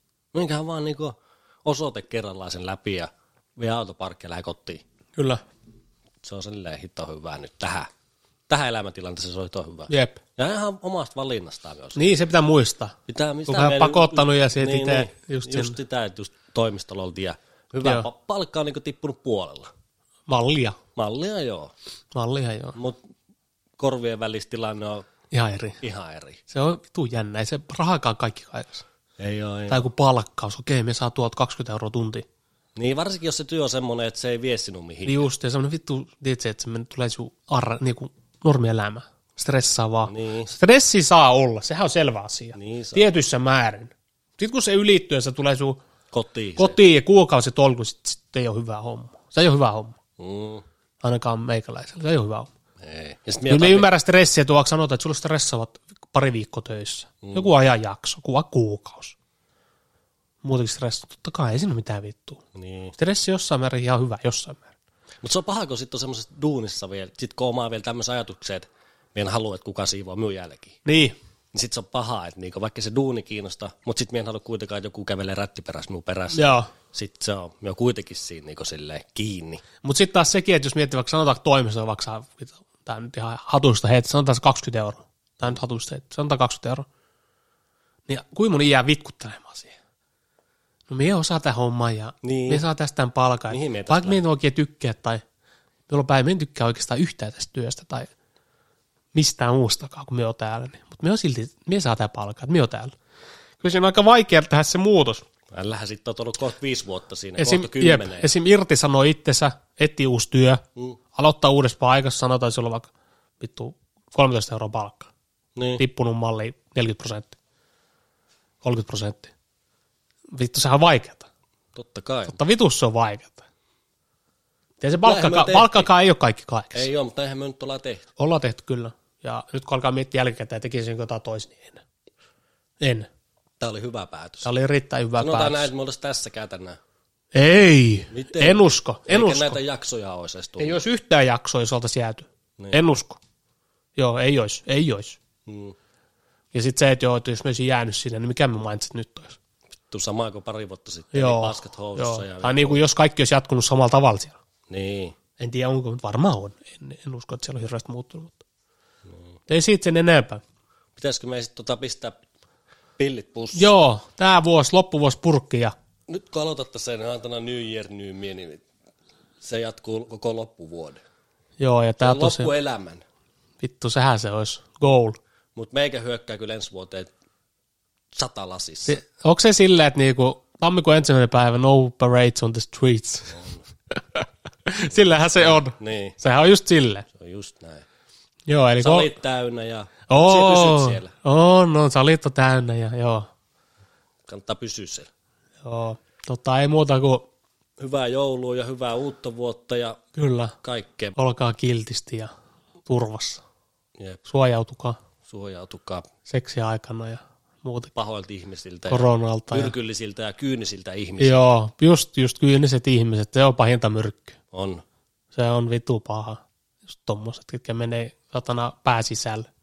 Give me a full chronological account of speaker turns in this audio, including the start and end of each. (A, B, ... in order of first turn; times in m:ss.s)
0:00.3-0:04.8 A
0:05.2-0:05.4 B
0:06.2-0:07.9 A
0:08.5-0:12.0 A
0:09.9-0:10.2 B
0:12.0-0:13.0 B
0:13.1-0:19.7 A
0:13.5-0:15.8 B
0:20.3-0:20.8 B
0:21.0-0:21.7 A
0:22.1-0:22.8 B
0:22.7-0:23.0 A
0:23.8-0:25.1 A
0:25.3-0:25.8 B
0:25.8-0:26.4 A
0:26.5-0:28.8 B
0:29.2-0:29.8 A
0:29.7-0:32.2 B
0:32.8-0:35.2 A
0:35.0-0:45.8 B
0:40.1-0:40.5 A
0:42.5-0:43.0 A
0:46.1-0:46.8 A
0:46.6-0:50.0 B
0:50.2-0:50.6 A
0:51.0-0:52.5 B
0:52.8-0:53.9 A
0:53.5-0:59.2 B
0:57.2-0:57.5 A
1:00.4-1:02.4 B
1:02.5-1:02.9 A
1:03.0-1:04.7 B
1:05.2-1:10.8 A
1:10.8-1:11.2 B
1:11.5-1:19.6 A
1:16.3-1:16.7 B
1:19.8-1:26.8 B
1:28.1-1:29.8 B
1:30.9-1:35.2 B
1:32.2-1:32.6 A
1:33.5-1:34.2 A
1:35.9-1:38.1 B
1:39.1-1:42.9 B
1:43.6-1:45.2 B
1:45.5-1:48.3 A
1:47.4-1:50.6 B
1:51.1-1:55.1 B
1:55.6-1:55.8 A
1:55.8-1:57.4 B
1:58.6-1:59.3 B
2:00.3-2:01.3 B
2:01.7-2:02.4 A
2:02.3-2:03.4 B
2:04.8-2:06.9 B
2:05.0-2:05.9 A
2:06.7-2:08.1 A
2:08.2-2:11.8 B
2:12.8-2:13.1 B
2:13.6-2:14.5 A
2:14.4-2:15.7 B
2:15.2-2:16.8 A
2:17.3-2:19.6 B
2:18.1-2:20.8 A
2:20.6-2:23.2 B
2:24.0-2:25.2 B
2:25.4-2:25.8 A
2:26.5-2:29.4 B
2:29.9-2:32.8 A
2:31.1-2:34.4 B
2:34.7-2:35.2 A
2:35.4-2:38.4 B
2:39.5-2:40.4 B
2:41.0-2:42.2 A
2:43.0-2:43.7 A
2:43.5-2:45.7 B
2:46.1-2:48.6 A
2:49.4-2:51.0 A
2:51.6-2:52.5 B
2:52.0-2:53.0 A
2:53.6-2:55.2 B
2:55.5-2:57.1 A
2:58.1-2:59.0 A
2:58.9-3:07.0 B
3:04.9-3:06.2 A
3:07.1-3:07.8 A
3:08.5-3:09.1 B
3:08.8-3:11.1 A
3:10.1-3:13.3 B
3:14.3-3:15.1 A
3:15.6-3:17.3 B
3:17.8-3:20.0 A
3:20.2-3:20.6 B
3:20.6-3:21.2 A
3:21.2-3:22.3 B
3:22.8-3:23.4 B
3:24.0-3:24.2 A
3:24.2-3:25.0 B
3:25.2-3:26.1 A
3:26.3-3:27.9 B
3:27.9-3:31.4 A
3:28.9-3:29.7 B
3:31.2-3:34.4 B
3:34.5-3:34.8 A
3:35.3-3:39.5 B